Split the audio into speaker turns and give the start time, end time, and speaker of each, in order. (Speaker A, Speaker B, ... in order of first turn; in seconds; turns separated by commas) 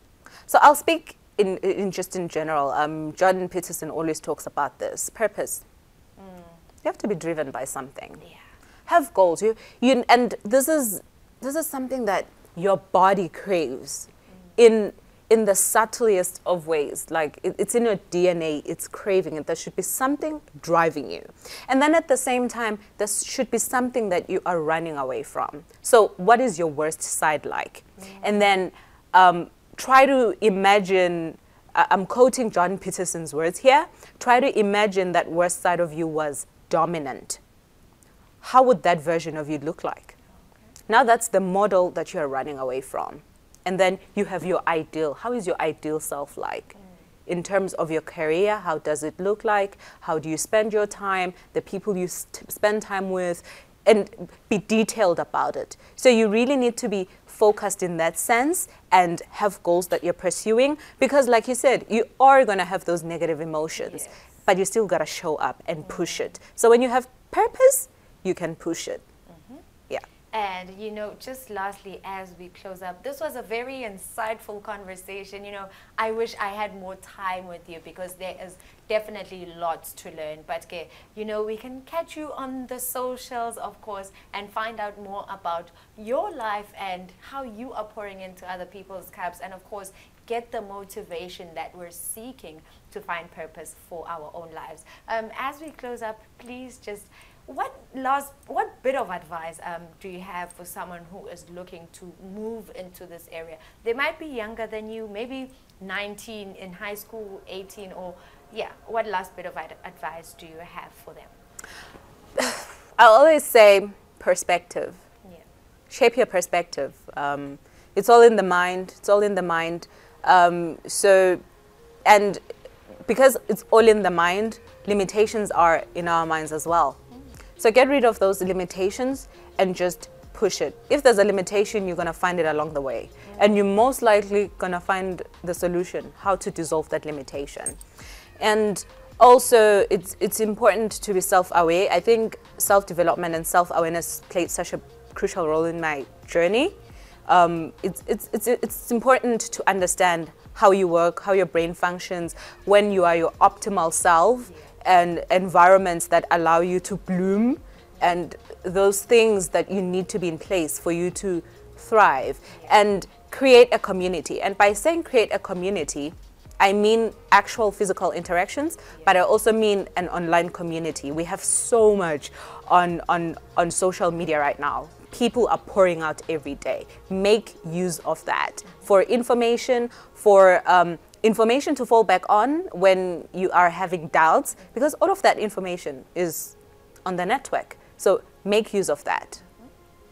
Speaker A: 0.5-5.7, Speaker B: 6.2-6.6, Speaker A: 6.8-8.2, Speaker A: 8.9-37.4, Speaker B: 28.0-28.5, Speaker A: 38.4-40.2, Speaker A: 40.9-69.0, Speaker B: 63.8-64.3, Speaker B: 65.8-66.3, Speaker B: 69.3-69.7, Speaker B: 70.3-111.4, Speaker A: 112.4-115.0, Speaker A: 115.9-121.4, Speaker A: 122.0-122.4, Speaker A: 123.1-127.0, Speaker A: 127.6-137.8, Speaker B: 133.2-133.5, Speaker A: 138.4-146.8, Speaker A: 147.3-189.4, Speaker B: 154.5-154.7, Speaker B: 162.5-162.8